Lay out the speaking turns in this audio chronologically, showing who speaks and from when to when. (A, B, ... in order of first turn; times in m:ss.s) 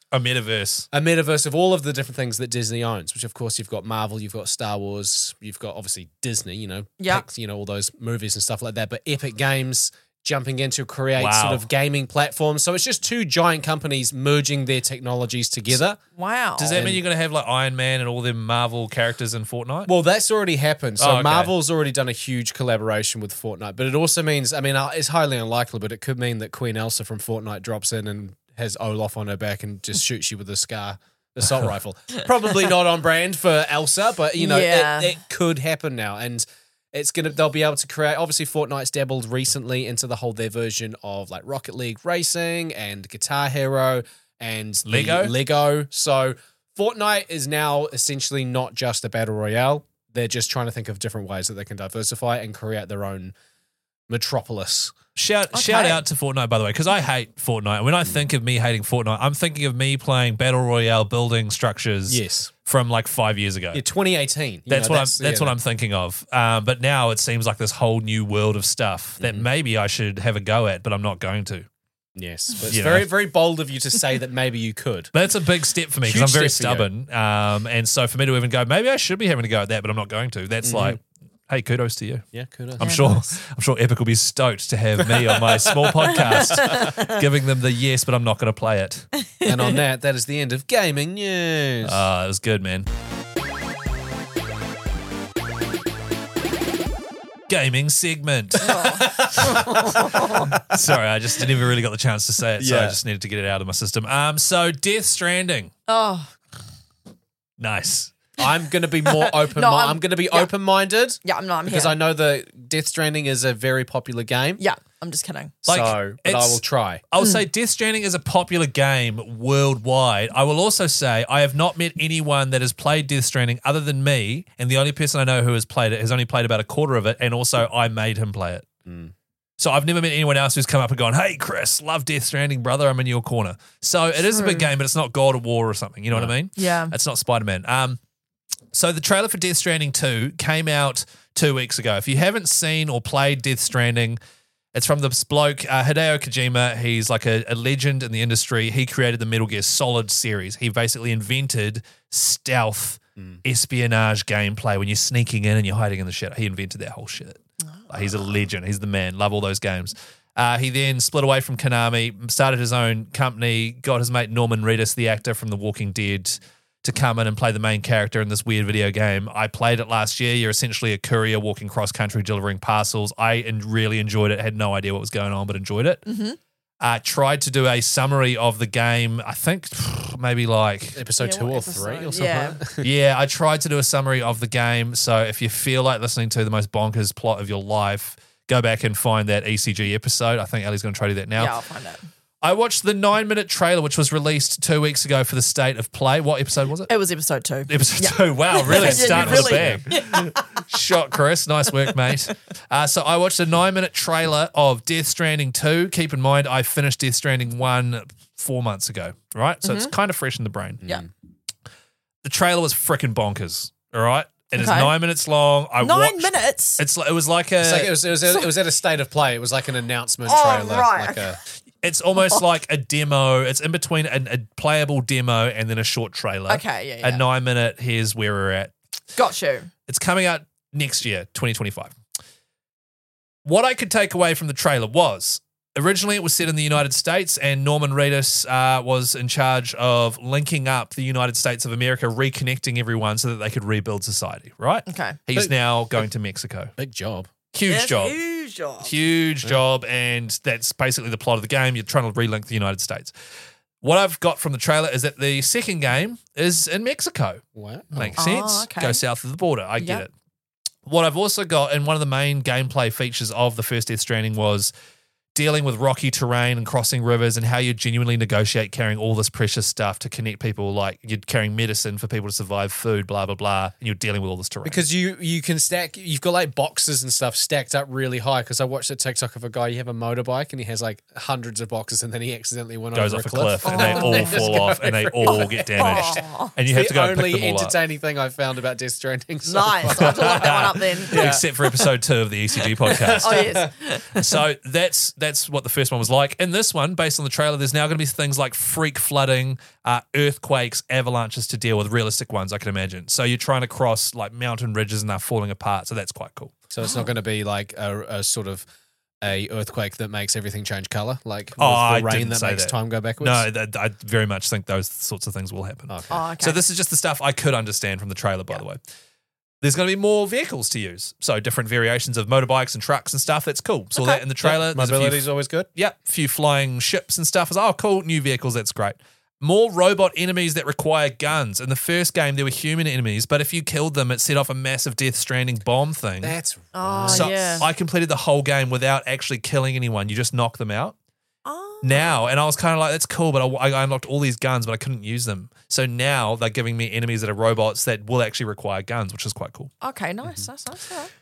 0:00.1-0:00.9 A
0:00.9-0:16.0 B
0:07.0-0:07.3 C
0:11.2-0:11.6 A
0:16.2-0:16.8 C
0:16.6-0:19.9 A
0:16.7-0:17.0 B
0:19.9-0:53.3 B
0:21.0-0:21.5 A
0:34.4-0:35.2 C
0:44.9-0:45.3 A
0:54.1-0:55.0 B
0:55.2-1:03.8 A
0:55.5-0:56.0 C
1:02.1-1:02.5 B
1:03.7-1:05.6 B
1:04.7-1:11.7 A
1:09.2-1:09.5 B
1:12.2-1:15.1 B
1:12.7-1:13.1 A
1:15.1-1:22.3 A
1:16.0-1:16.9 B
1:20.6-1:21.0 B
1:22.3-1:23.0 B
1:22.8-1:29.1 A
1:22.8-1:23.4 C
1:25.0-1:26.8 B
1:26.4-1:27.2 C
1:29.2-1:29.8 C
1:29.4-1:32.0 B
1:31.8-1:32.9 A
1:37.5-1:45.7 A
1:38.6-1:40.5 C
1:38.8-1:39.9 B
1:42.6-1:43.0 B
1:45.9-1:46.4 C
1:47.6-1:48.2 A
1:48.4-1:54.6 B
1:49.0-1:50.5 C
1:51.2-1:52.0 C
1:54.6-1:55.6 C
1:55.6-2:08.7 A
1:55.7-1:57.0 B
2:08.8-2:09.1 B
2:09.6-2:18.0 A
2:14.3-2:14.7 C
2:16.6-2:16.9 C
2:18.7-2:24.2 A
2:24.7-2:56.0 A
2:56.1-2:56.4 C
2:56.8-3:01.0 A
3:01.0-3:02.9 B
3:01.2-3:02.6 C
3:02.8-3:11.6 A
3:11.4-3:12.0 C
3:12.4-3:16.9 A
3:16.9-3:20.4 C
3:17.7-3:30.8 A
3:18.7-3:19.8 B
3:29.6-3:29.9 C
3:30.8-3:31.1 B
3:32.2-3:38.0 A
3:34.6-3:34.9 C
3:35.8-3:36.8 C
3:37.6-3:41.4 B
3:40.3-3:41.4 C
3:41.8-3:48.7 A
3:46.5-3:47.2 C
3:49.2-3:49.7 C
3:49.9-3:51.9 A
3:53.4-4:06.7 A
4:04.9-4:05.2 C
4:06.8-4:07.3 B
4:07.5-4:08.2 A
4:07.7-4:08.9 C
4:08.8-4:13.1 A
4:13.8-4:20.1 A
4:17.6-4:18.2 B
4:18.2-4:19.0 C
4:19.8-4:20.0 C
4:20.9-4:24.7 A
4:25.4-4:34.8 A
4:34.6-4:51.5 B
4:42.9-4:47.8 A
4:43.6-4:44.6 C
4:45.2-4:46.5 C
4:49.4-4:51.4 C
4:50.0-5:06.6 A
4:52.8-4:53.7 B
4:53.2-4:54.4 C
5:06.7-5:08.6 B
5:06.8-5:07.1 C
5:09.2-5:13.5 B
5:11.6-5:18.8 A
5:15.9-5:16.2 B
5:16.1-5:16.6 C
5:19.6-5:36.4 A
5:24.0-5:24.2 C
5:24.4-5:25.7 B
5:36.2-5:37.6 B
5:36.7-5:37.7 C
5:37.0-5:41.0 A
5:41.5-5:42.2 C
5:41.8-5:49.7 A
5:49.8-5:51.1 C